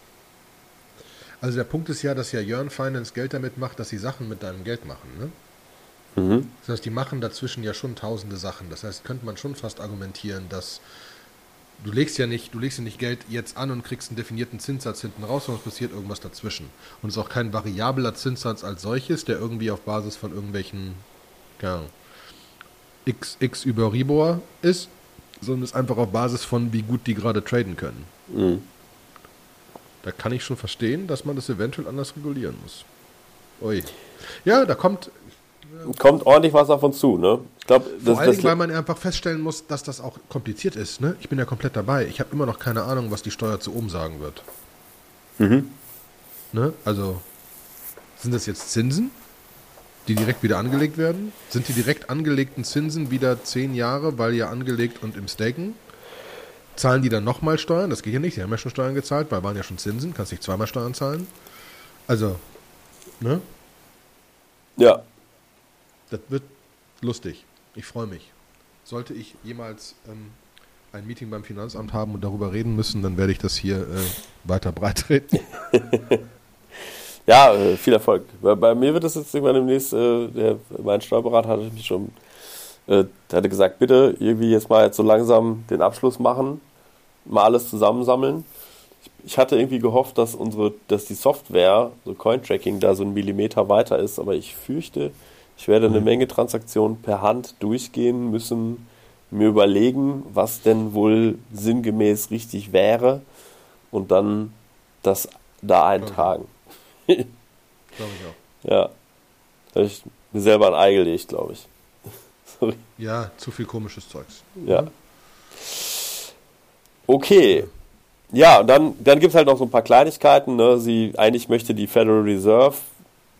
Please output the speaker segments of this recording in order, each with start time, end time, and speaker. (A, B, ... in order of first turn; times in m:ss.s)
0:01.4-0:05.3 A
0:06.2-0:06.5 B
0:06.6-0:10.8 A
0:11.8-0:21.0 A
0:21.6-0:21.9 A
0:23.0-0:28.1 A
0:28.3-0:28.6 B
0:30.0-0:32.8 A
0:33.6-0:35.9 A
0:35.8-0:38.5 B
0:38.0-0:44.4 A
0:45.4-0:45.7 B
0:46.5-0:47.2 A
0:48.2-0:49.2 A
0:50.0-0:55.8 A
0:56.8-1:01.3 A
1:02.1-1:02.4 A
1:04.8-1:05.0 B
1:06.1-1:06.5 A
1:07.0-1:08.3 A
1:08.8-1:10.4 A
1:10.9-1:15.4 A
1:15.6-1:16.2 B
1:17.3-1:22.2 B
1:22.9-1:26.6 B
1:27.2-1:28.5 B
1:29.1-1:43.2 B
1:43.9-1:46.5 B
1:46.0-1:46.3 A
1:47.9-1:48.4 A
1:48.6-1:48.9 B
1:49.7-1:51.7 B
1:52.4-1:52.8 B
1:53.0-1:54.9 A
1:54.6-1:54.9 B
1:55.7-1:56.0 B
1:57.1-1:57.7 B
1:58.3-2:02.9 B